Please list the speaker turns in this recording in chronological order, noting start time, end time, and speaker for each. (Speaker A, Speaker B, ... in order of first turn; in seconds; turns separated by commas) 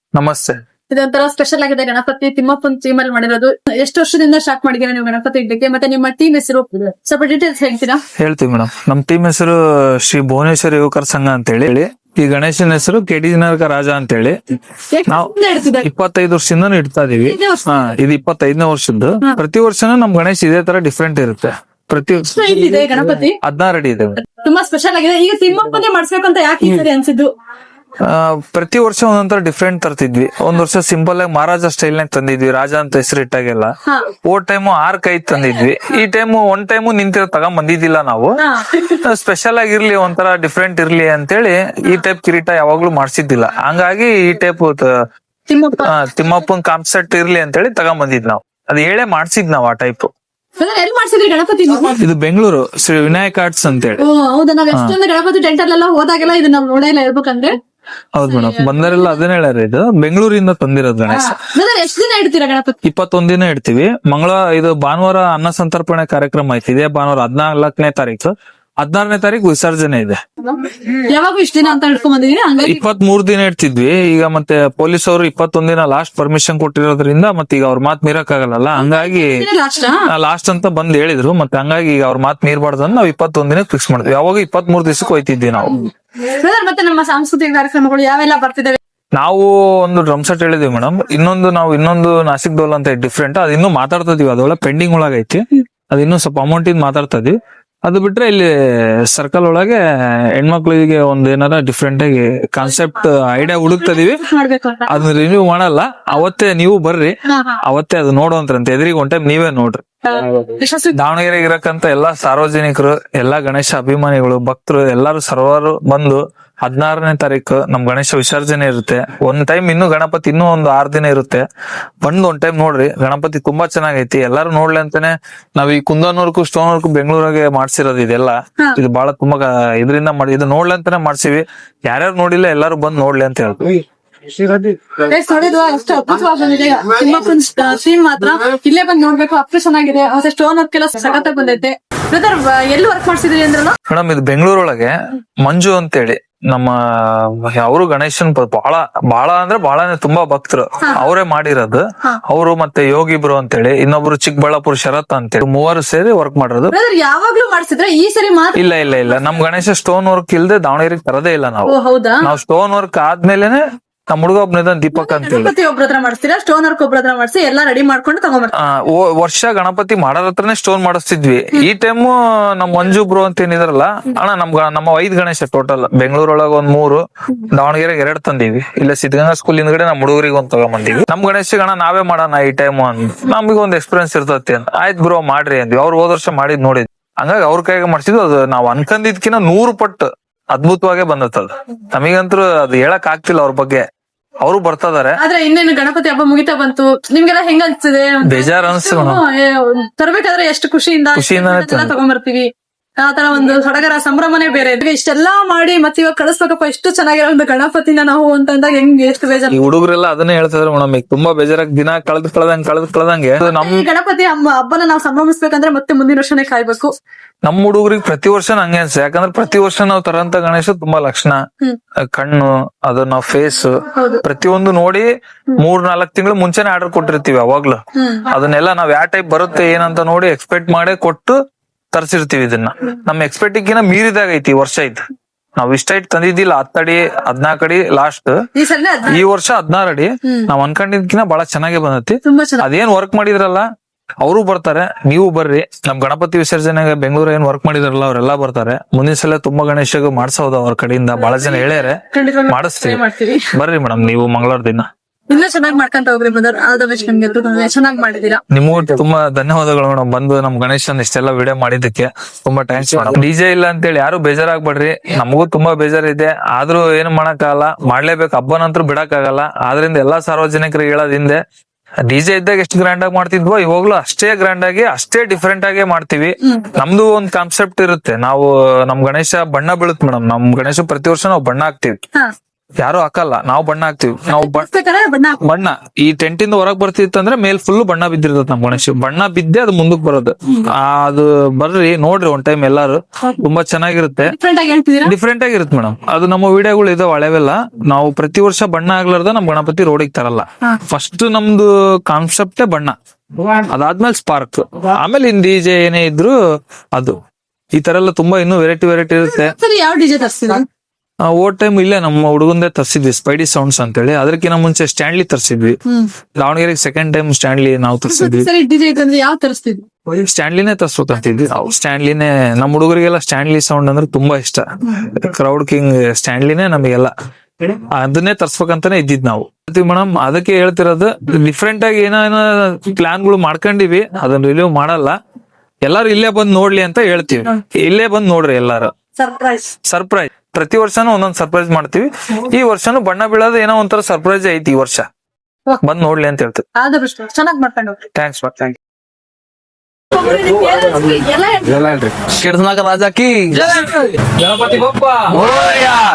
Speaker A: 0.1-0.6, Speaker B: 0.9-8.0, Speaker A: 8.2-14.4, Speaker B: 14.9-15.9, Speaker A: 15.1-22.8, Speaker B: 17.2-17.9, Speaker B: 22.3-23.4, Speaker A: 23.4-24.2, Speaker B: 24.2-27.3, Speaker A: 28.0-33.7, Speaker A: 34.2-44.9, Speaker B: 38.4-39.0, Speaker B: 45.5-46.0, Speaker A: 45.8-50.1, Speaker B: 50.6-52.0, Speaker A: 52.0-54.0, Speaker B: 54.0-57.5, Speaker A: 58.1-61.4, Speaker B: 58.3-59.1, Speaker B: 61.1-62.8, Speaker A: 62.8-70.2, Speaker B: 70.6-72.8, Speaker A: 72.6-79.4, Speaker B: 78.8-80.1, Speaker A: 80.0-85.9, Speaker B: 86.2-88.8, Speaker A: 89.2-99.8, Speaker A: 100.3-104.2, Speaker B: 103.8-105.0, Speaker A: 104.9-109.8, Speaker B: 107.3-107.6, Speaker B: 110.0-111.0, Speaker A: 110.9-121.4, Speaker A: 122.0-133.8, Speaker B: 135.0-143.8, Speaker A: 143.9-156.7, Speaker B: 156.7-158.6, Speaker A: 158.6-165.5, Speaker B: 161.7-162.2, Speaker B: 164.9-168.5, Speaker A: 168.5-193.8, Speaker A: 194.4-195.2, Speaker B: 195.2-202.5, Speaker A: 198.2-199.2, Speaker A: 201.1-201.9, Speaker B: 203.0-209.6, Speaker A: 209.5-213.8, Speaker B: 213.4-216.9, Speaker A: 217.4-221.4, Speaker A: 222.1-231.3, Speaker B: 223.9-224.2, Speaker B: 227.9-228.3, Speaker A: 231.9-235.0, Speaker A: 235.6-238.5, Speaker B: 238.5-239.2, Speaker A: 239.0-243.7, Speaker B: 242.2-242.7, Speaker A: 244.2-254.9, Speaker B: 252.1-253.5, Speaker B: 255.3-258.4, Speaker A: 258.5-271.4, Speaker A: 272.1-282.0, Speaker A: 282.8-284.7, Speaker B: 284.3-285.4, Speaker A: 285.4-294.3, Speaker B: 294.2-295.1, Speaker A: 295.0-306.4, Speaker A: 306.9-307.2, Speaker A: 307.7-309.5, Speaker B: 309.2-310.6, Speaker A: 311.2-315.8, Speaker A: 316.4-318.5, Speaker B: 318.1-319.9, Speaker A: 320.1-327.1, Speaker A: 327.6-335.2, Speaker A: 335.9-338.9, Speaker B: 339.1-339.7, Speaker A: 339.9-345.1, Speaker A: 345.8-346.6, Speaker B: 346.8-348.0, Speaker A: 348.1-348.8, Speaker B: 350.1-351.9, Speaker A: 351.9-356.0